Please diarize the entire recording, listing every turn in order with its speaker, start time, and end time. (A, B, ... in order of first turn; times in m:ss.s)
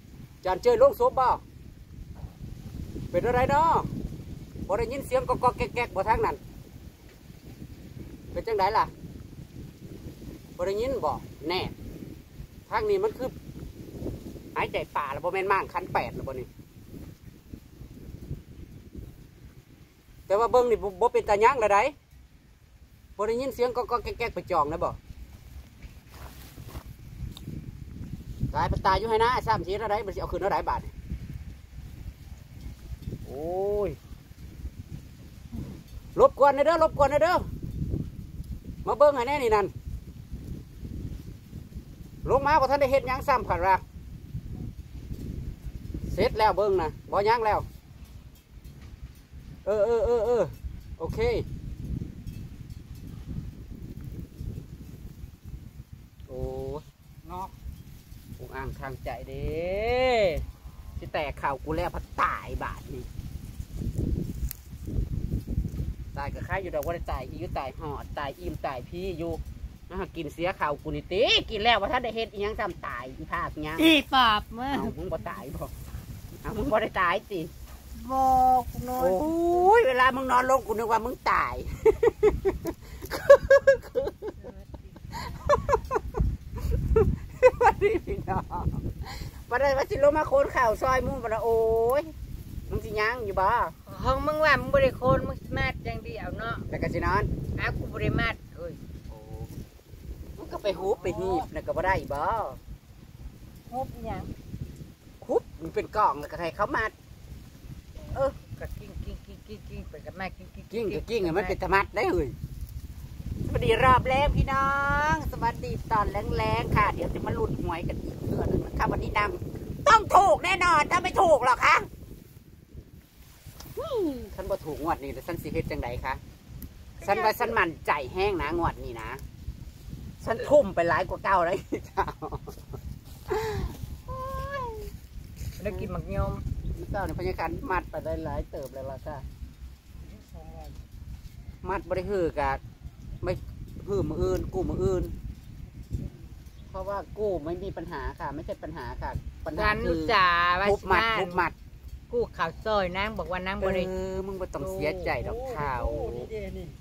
0:00.4-0:01.4 A
0:03.1-0:03.9 A
0:04.7-0:06.4 A
0:08.3-0:08.9 A
0:10.6-0:11.7 A
0:12.7-0:13.4 A
0:14.6-0:16.5 A
0:20.3-0:22.0 A
0:23.2-0:25.0 A
0:28.5-0:30.9 A
0:33.2-0:34.0 A
0:36.2-0:37.5 A
0:38.8-0:39.7 A
0:42.2-0:43.8 A
0:46.1-0:47.7 A
0:49.6-0:51.5 A
0:56.3-0:56.9 A
0:58.4-1:00.5 A
1:01.0-1:03.1 A
1:06.1-1:13.9 A
1:13.8-1:15.0 B
1:14.7-1:15.7 A
1:16.4-1:17.5 A
1:18.0-1:19.7 B
1:19.0-1:24.5 A
1:25.1-1:26.0 A
1:26.6-1:32.1 A
1:32.7-1:33.8 A
1:33.9-1:36.7 B
1:36.7-1:37.3 A
1:37.6-1:38.8 B
1:39.1-1:39.6 A
1:40.4-1:42.6 A
1:40.8-1:41.4 B
1:43.7-1:44.3 B
1:45.2-1:47.0 A
1:48.4-1:51.6 B
1:50.7-1:52.4 A
1:53.5-2:01.9 A
2:03.8-2:06.2 A
2:07.0-2:07.6 B
2:07.0-2:09.2 A
2:10.2-2:12.8 A
2:13.3-2:13.7 A
2:14.1-2:14.9 B
2:15.6-2:16.4 B
2:16.8-2:19.3 A
2:21.6-2:22.6 A
2:23.2-2:25.2 A
2:26.7-2:31.6 A
2:29.5-2:31.4 B
2:32.1-2:33.9 B
2:33.6-2:36.4 A
2:34.6-2:35.2 B